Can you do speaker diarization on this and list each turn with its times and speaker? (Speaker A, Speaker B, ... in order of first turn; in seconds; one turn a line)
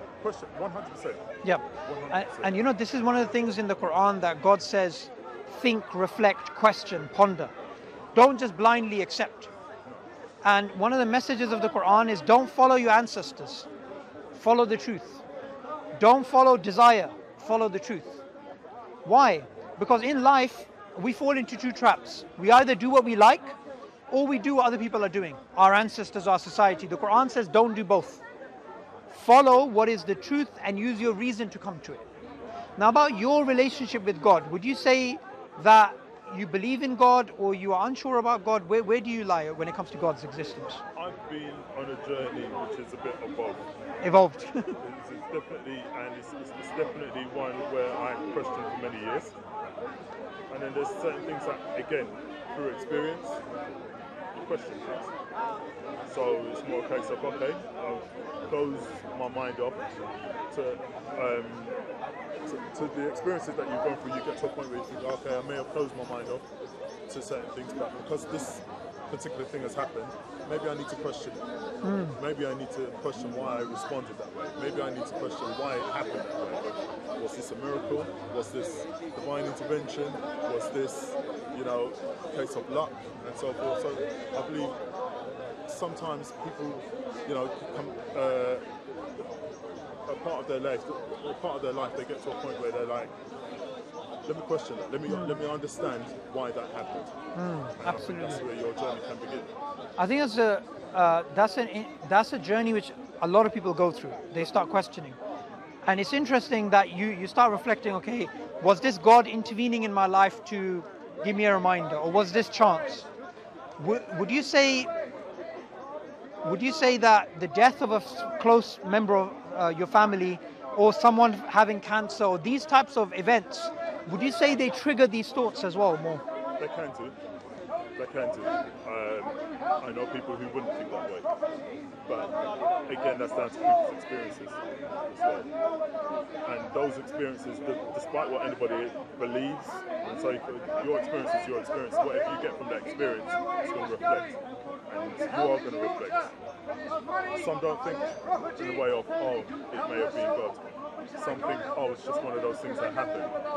Speaker A: 0.2-1.2
Speaker B: 1.4-7.5
Speaker A: 1.8-2.5
Speaker B: 8.2-9.5
Speaker B: 10.4-13.7
Speaker B: 14.3-15.2
Speaker B: 15.9-18.2
Speaker B: 19.1-23.6
Speaker B: 24.1-28.2
Speaker B: 29.1-32.0
Speaker B: 32.8-40.8
Speaker A: 41.0-43.7
Speaker B: 44.0-44.8
Speaker A: 44.8-49.4
Speaker A: 50.5-53.4
Speaker A: 54.3-55.1
Speaker A: 56.1-61.8
Speaker A: 62.5-66.5
Speaker A: 67.1-71.5
Speaker B: 71.8-72.2
Speaker A: 72.2-84.8
Speaker A: 85.7-88.7
Speaker A: 90.1-93.1
Speaker A: 94.3-97.1
Speaker B: 95.1-95.4
Speaker B: 97.3-98.4
Speaker A: 97.8-99.5
Speaker B: 100.0-105.2
Speaker B: 105.8-113.1
Speaker B: 113.8-114.9
Speaker B: 116.4-126.2
Speaker A: 126.6-127.2
Speaker A: 128.0-131.3
Speaker A: 132.1-132.3
Speaker A: 132.9-135.5
Speaker A: 136.4-146.3
Speaker A: 147.3-153.3